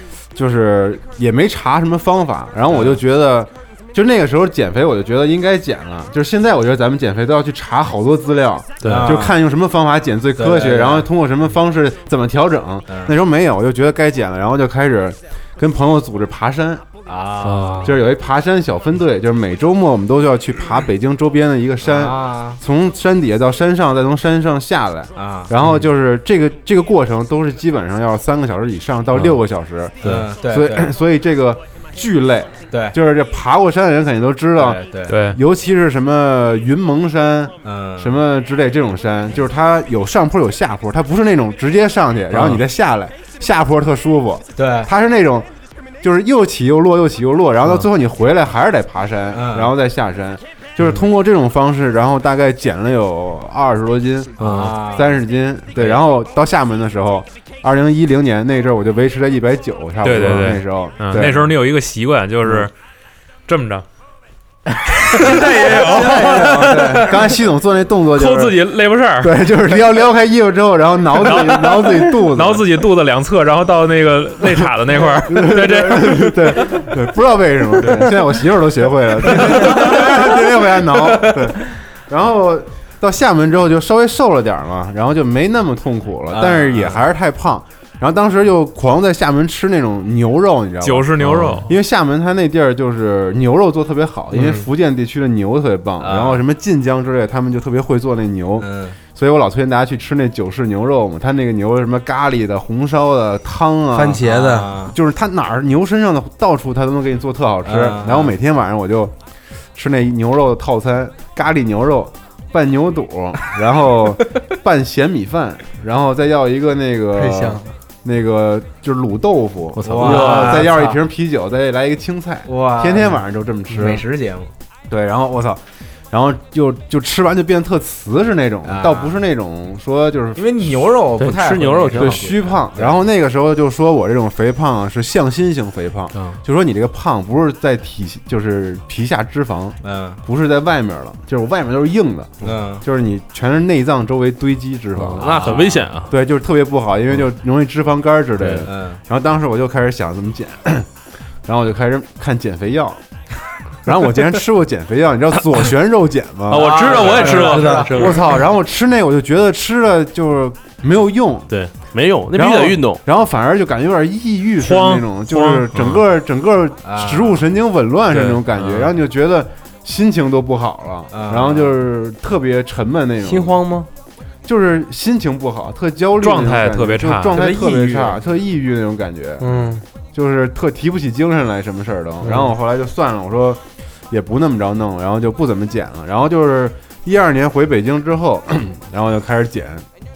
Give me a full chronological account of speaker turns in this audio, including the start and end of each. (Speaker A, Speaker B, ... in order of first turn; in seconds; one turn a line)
Speaker A: 0.3-16.8
Speaker B: 2.7-3.0
Speaker C: 8.8-9.2
Speaker B: 8.8-9.3
Speaker B: 10.3-11.1
Speaker B: 12.9-13.2
Speaker B: 17.1-17.9
Speaker C: 17.4-18.0
Speaker A: 17.8-45.5
Speaker B: 21.8-22.6
Speaker B: 25.1-25.8
Speaker B: 30.0-30.9
Speaker B: 32.7-33.0
Speaker B: 34.6-35.2
Speaker D: 35.1-35.4
Speaker B: 37.6-38.2
Speaker B: 44.5-44.9
Speaker A: 46.0-61.5
Speaker B: 49.3-49.7
Speaker C: 54.4-54.8
Speaker B: 54.4-55.1
Speaker B: 55.8-56.0
Speaker D: 60.0-62.7
Speaker A: 62.4-62.7
Speaker D: 63.5-63.9
Speaker D: 65.0-66.5
Speaker E: 65.1-67.2
Speaker A: 65.4-68.6
Speaker D: 68.1-69.3
Speaker A: 69.2-72.7
Speaker D: 71.2-76.8
Speaker A: 75.2-109.1
Speaker D: 77.8-78.1
Speaker B: 79.5-81.5
Speaker B: 86.3-87.1
Speaker D: 90.8-91.8
Speaker C: 91.2-91.6
Speaker E: 94.3-94.6
Speaker B: 96.0-96.4
Speaker B: 98.6-99.0
Speaker E: 103.9-104.7
Speaker B: 104.2-104.9
Speaker B: 107.6-108.3
Speaker A: 109.7-124.0
Speaker E: 117.2-117.7
Speaker C: 119.8-120.7
Speaker B: 119.8-121.0
Speaker B: 122.5-124.5
Speaker A: 124.9-130.8
Speaker B: 128.7-129.2
Speaker B: 130.3-133.0
Speaker C: 131.2-132.3
Speaker A: 131.9-150.9
Speaker C: 136.1-136.4
Speaker B: 139.8-140.2
Speaker B: 142.4-142.8
Speaker C: 145.0-146.1
Speaker B: 145.2-145.9
Speaker C: 148.4-148.7
Speaker B: 148.6-149.0
Speaker A: 151.4-153.0
Speaker A: 153.8-161.5
Speaker C: 156.5-158.2
Speaker B: 156.5-158.2
Speaker E: 157.2-157.9
Speaker C: 161.5-163.0
Speaker A: 162.3-173.6
Speaker D: 164.6-165.7
Speaker B: 166.8-167.4
Speaker D: 168.1-168.9
Speaker B: 171.1-171.7
Speaker E: 173.2-173.9
Speaker A: 174.4-189.8
Speaker D: 176.2-177.4
Speaker E: 177.5-178.0
Speaker E: 179.4-179.8
Speaker E: 182.2-182.5